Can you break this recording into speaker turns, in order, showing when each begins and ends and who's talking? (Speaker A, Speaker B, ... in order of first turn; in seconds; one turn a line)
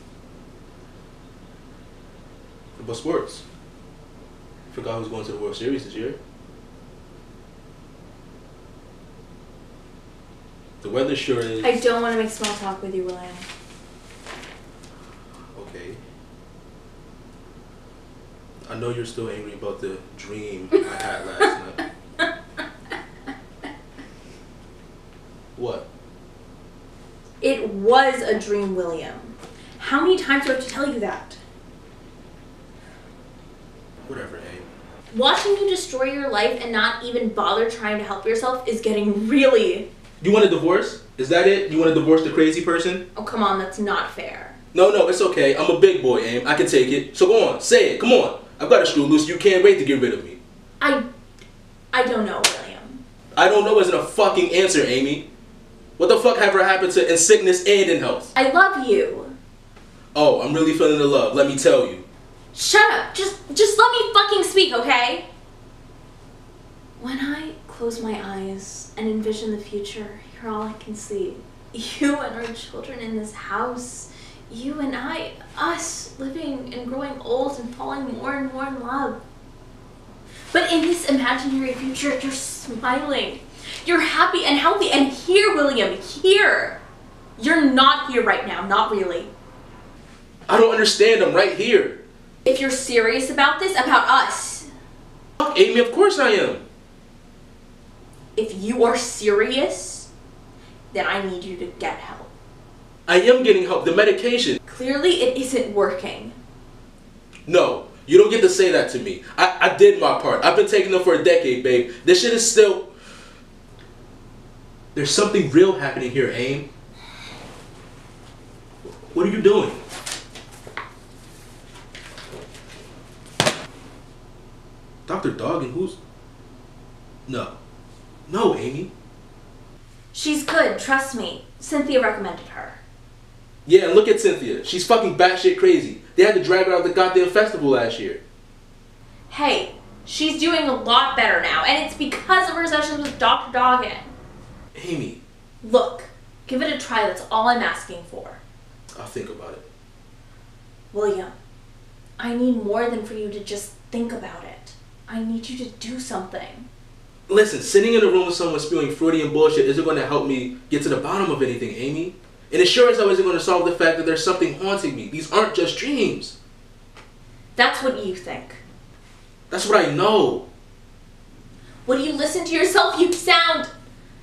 Speaker A: 2.8-3.4
Speaker A: 4.7-6.2
Speaker A: 10.8-11.7
Speaker B: 11.6-13.5
Speaker A: 15.5-16.0
Speaker A: 18.7-21.8
Speaker A: 25.6-25.8
Speaker B: 27.4-31.4
Speaker A: 34.0-34.7
Speaker B: 35.1-39.9
Speaker A: 40.2-43.0
Speaker B: 43.1-44.5
Speaker A: 44.7-50.4
Speaker B: 51.9-53.0
Speaker A: 53.3-55.3
Speaker A: 56.0-58.3
Speaker B: 58.3-59.3
Speaker A: 60.1-62.0
Speaker B: 62.5-65.3
Speaker B: 67.0-79.2
Speaker B: 80.5-86.8
Speaker B: 87.4-89.3
Speaker A: 90.5-92.0
Speaker B: 92.4-94.7
Speaker A: 95.4-96.6
Speaker B: 98.3-100.1
Speaker B: 100.9-102.3
Speaker A: 103.1-104.6
Speaker B: 104.7-106.3
Speaker A: 107.5-112.9
Speaker A: 114.9-116.7
Speaker A: 119.1-119.8
Speaker A: 125.0-126.0
Speaker A: 127.3-127.6
Speaker A: 128.3-128.9
Speaker B: 130.1-132.8
Speaker A: 133.7-138.2
Speaker B: 139.3-144.1
Speaker A: 144.7-145.2
Speaker B: 145.6-148.4
Speaker A: 148.9-149.6
Speaker B: 150.9-151.3
Speaker B: 152.2-156.7
Speaker A: 157.3-166.3
Speaker B: 167.6-168.6
Speaker A: 169.5-170.4
Speaker B: 171.8-173.7